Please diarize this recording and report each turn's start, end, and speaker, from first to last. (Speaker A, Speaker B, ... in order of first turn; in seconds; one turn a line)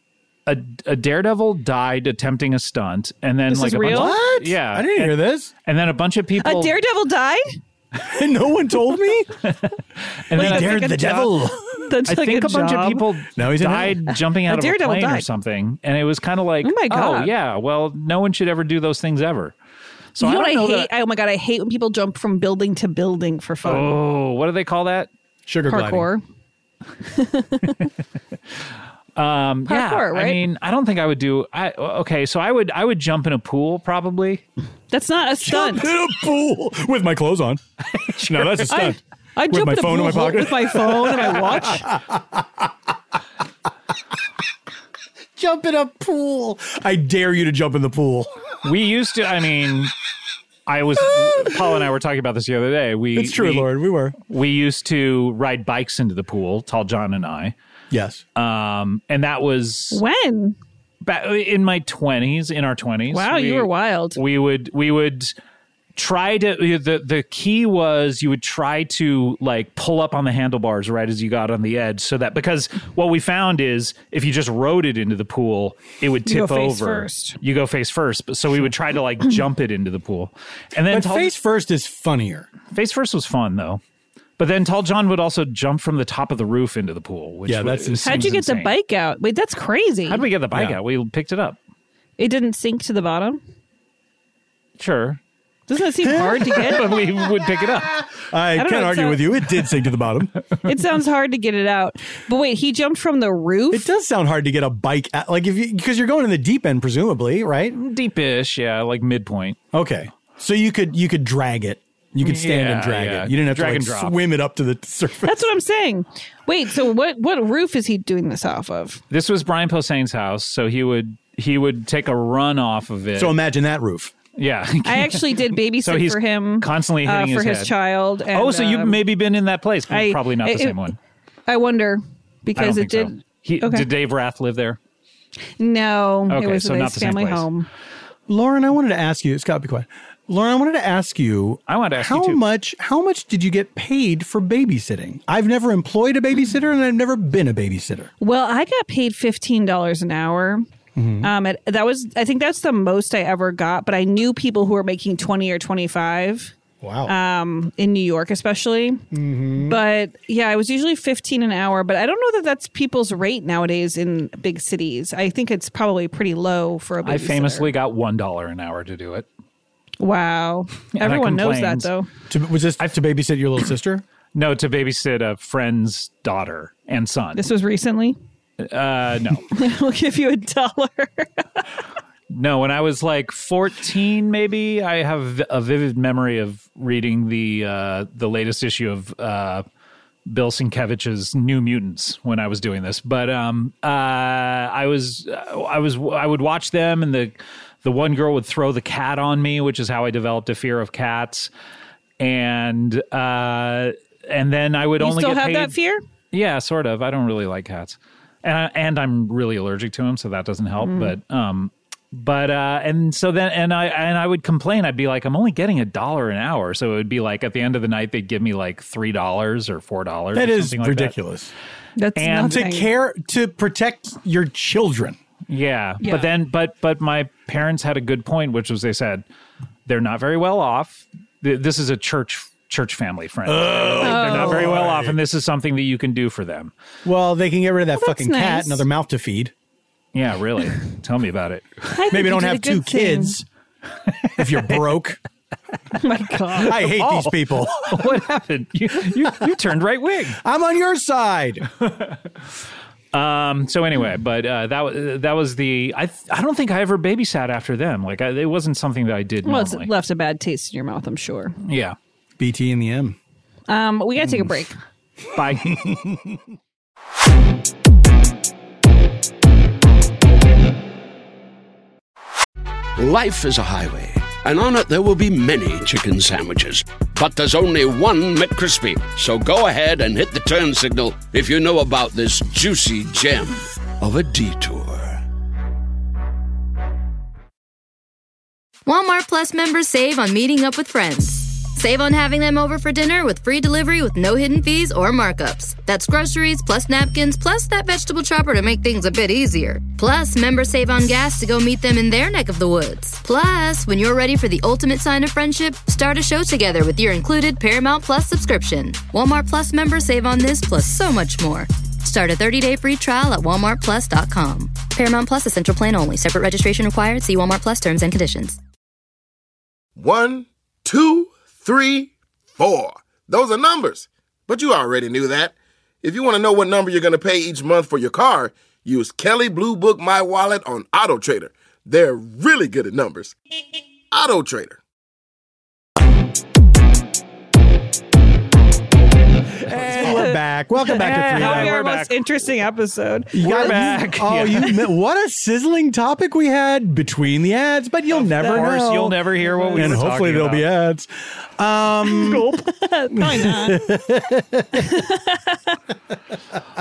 Speaker A: 0.5-6.7
Speaker B: 3.5-4.2
Speaker C: 3.7-5.5
Speaker B: 6.4-7.4
Speaker C: 8.0-9.4
Speaker A: 9.4-9.7
Speaker A: 10.2-11.0
Speaker C: 10.3-11.7
Speaker B: 10.3-13.1
Speaker A: 12.1-19.6
Speaker C: 13.4-14.0
Speaker B: 14.4-15.2
Speaker B: 16.6-17.3
Speaker A: 20.1-20.9
Speaker B: 20.2-23.9
Speaker A: 23.6-25.1
Speaker C: 25.4-26.1
Speaker B: 25.7-26.2
Speaker B: 27.1-27.8
Speaker A: 29.1-34.4
Speaker B: 29.7-30.4
Speaker B: 34.9-35.9
Speaker C: 35.4-37.6
Speaker A: 38.0-38.9
Speaker C: 38.2-42.7
Speaker B: 38.7-41.9
Speaker C: 45.4-48.3
Speaker A: 48.6-49.9
Speaker A: 50.7-53.7
Speaker C: 53.1-54.1
Speaker A: 54.3-57.5
Speaker C: 57.9-58.2
Speaker A: 58.4-60.0
Speaker B: 59.9-60.5
Speaker A: 61.0-65.3
Speaker B: 63.1-64.2
Speaker A: 66.0-81.3
Speaker B: 76.2-77.4
Speaker C: 80.9-82.5
Speaker A: 82.7-83.8
Speaker A: 84.4-88.7
Speaker C: 87.5-88.3
Speaker B: 88.0-90.2
Speaker A: 90.1-91.6
Speaker B: 92.2-93.4
Speaker A: 94.8-95.2
Speaker B: 95.7-96.9
Speaker C: 96.0-96.6
Speaker A: 96.1-98.1
Speaker C: 98.2-100.4
Speaker B: 98.5-99.4
Speaker B: 100.6-103.9
Speaker C: 103.7-107.8
Speaker A: 107.7-109.6
Speaker C: 109.7-115.5
Speaker A: 112.2-114.2
Speaker B: 115.2-119.0
Speaker A: 119.1-123.4
Speaker C: 123.2-124.1
Speaker A: 124.4-127.7
Speaker B: 124.8-129.0
Speaker A: 128.3-131.0
Speaker B: 129.9-130.8
Speaker B: 131.5-133.9
Speaker A: 132.6-134.8
Speaker B: 135.6-137.7
Speaker A: 136.3-137.5
Speaker C: 138.3-148.1
Speaker A: 141.7-142.4
Speaker B: 148.2-150.7
Speaker C: 150.9-151.3
Speaker B: 151.2-156.5
Speaker C: 156.8-157.1
Speaker B: 157.1-159.0
Speaker C: 159.1-159.8
Speaker B: 159.6-167.7
Speaker A: 167.0-169.3
Speaker B: 170.0-172.1
Speaker A: 170.9-171.9
Speaker C: 172.3-174.0
Speaker A: 174.3-177.5
Speaker B: 177.4-178.2
Speaker A: 178.6-179.5
Speaker B: 179.5-181.6
Speaker A: 182.3-189.6
Speaker A: 190.2-201.5
Speaker A: 202.2-205.8
Speaker B: 205.0-206.0
Speaker A: 206.3-221.1
Speaker B: 210.8-211.1
Speaker C: 220.3-221.5
Speaker B: 221.9-222.9
Speaker A: 222.2-222.6
Speaker C: 222.4-225.2
Speaker A: 225.5-229.2
Speaker B: 226.0-226.3
Speaker A: 229.9-236.7
Speaker C: 233.4-235.2
Speaker B: 234.0-234.7
Speaker C: 237.0-239.5
Speaker B: 237.9-238.8
Speaker A: 240.1-242.0
Speaker B: 241.9-243.4
Speaker C: 242.1-243.4
Speaker A: 244.2-244.9
Speaker C: 244.4-245.2
Speaker B: 245.9-246.9
Speaker C: 246.6-248.0
Speaker A: 246.7-250.4
Speaker C: 250.4-251.7
Speaker A: 251.8-252.2
Speaker A: 253.1-259.9
Speaker B: 259.4-261.5
Speaker A: 261.6-261.9
Speaker C: 262.4-263.1
Speaker B: 263.7-264.7
Speaker A: 265.3-265.9
Speaker C: 265.7-266.2
Speaker D: 273.0-285.2
Speaker E: 288.9-318.6
Speaker F: 320.0-333.3
Speaker F: 334.1-334.8
Speaker C: 339.6-341.7
Speaker A: 339.7-340.2
Speaker B: 339.9-340.2
Speaker B: 340.9-343.9
Speaker A: 340.9-342.1
Speaker C: 343.3-352.4
Speaker A: 343.4-344.8
Speaker A: 348.1-350.7
Speaker B: 349.5-350.0
Speaker B: 352.1-353.9
Speaker A: 352.2-352.6
Speaker C: 353.1-354.9
Speaker B: 354.8-355.8